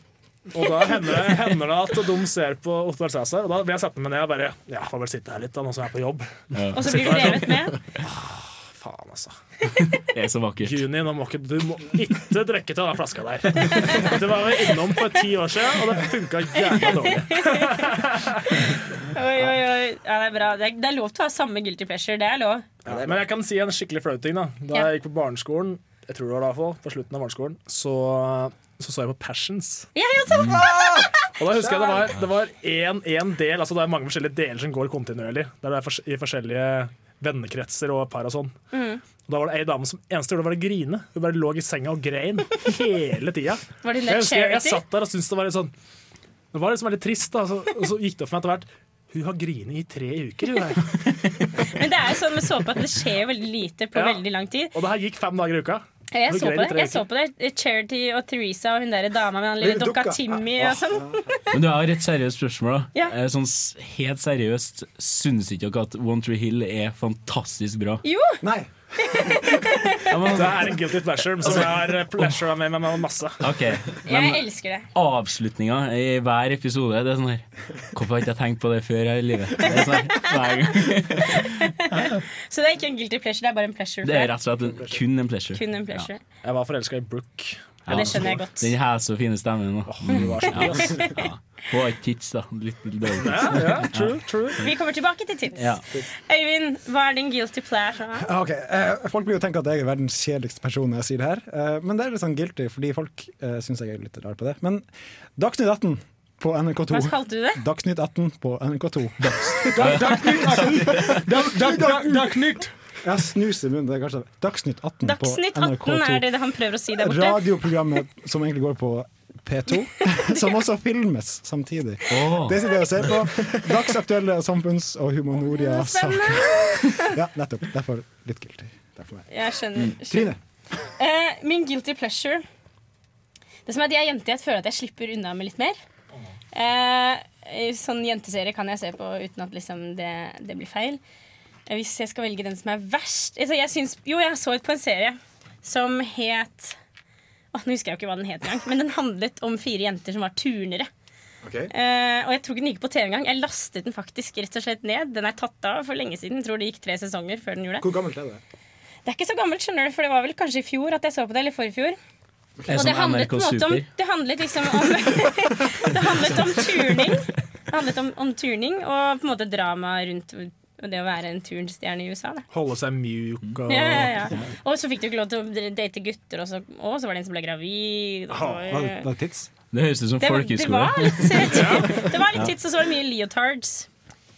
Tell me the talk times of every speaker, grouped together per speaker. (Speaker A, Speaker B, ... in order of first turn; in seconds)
Speaker A: 0.5-9.4, 10.6-18.6, 22.9-29.9, 31.4-38.5, 39.2-45.7, 46.5-51.2, 53.9-57.0, 70.3-73.4, 86.4-88.4, 89.8-91.1, 93.2-94.6, 172.5-174.3, 178.3-178.7, 181.5-182.1
Speaker B: 6.5-7.5, 10.0-10.9, 30.3-30.6, 61.5-68.0, 70.1-70.8, 71.4-71.8, 73.4-82.1, 84.0-86.1, 87.9-94.7, 95.5-95.8, 109.2-111.2, 122.1-122.6, 162.7-163.9, 179.7-182.5
Speaker C: 6.7-7.7, 17.2-17.9, 18.6-22.7, 29.9-31.1, 38.7-39.0, 43.8-44.8, 51.6-54.7, 56.1-61.4, 68.0-68.4, 69.0-70.1, 74.0-74.8, 79.7-84.3, 85.5-86.2, 87.9-88.7, 90.8-91.2, 94.6-95.7, 96.3-98.3, 106.9-107.6, 115.0-117.5, 125.5-127.1, 129.3-130.3, 131.0-132.4, 133.7-135.8, 136.5-141.0, 141.7-146.8, 147.5-150.9, 151.7-157.9, 159.0-162.0, 162.7-172.4, 173.7-179.1, 180.2-183.9
Speaker D: 22.9-23.2, 30.5-31.1, 59.6-61.2, 68.4-69.5, 98.2-104.8, 105.4-112.3, 113.0-116.3, 116.9-129.3, 129.9-130.4, 151.4-151.7, 157.8-158.4, 162.6-162.8, 178.6-179.5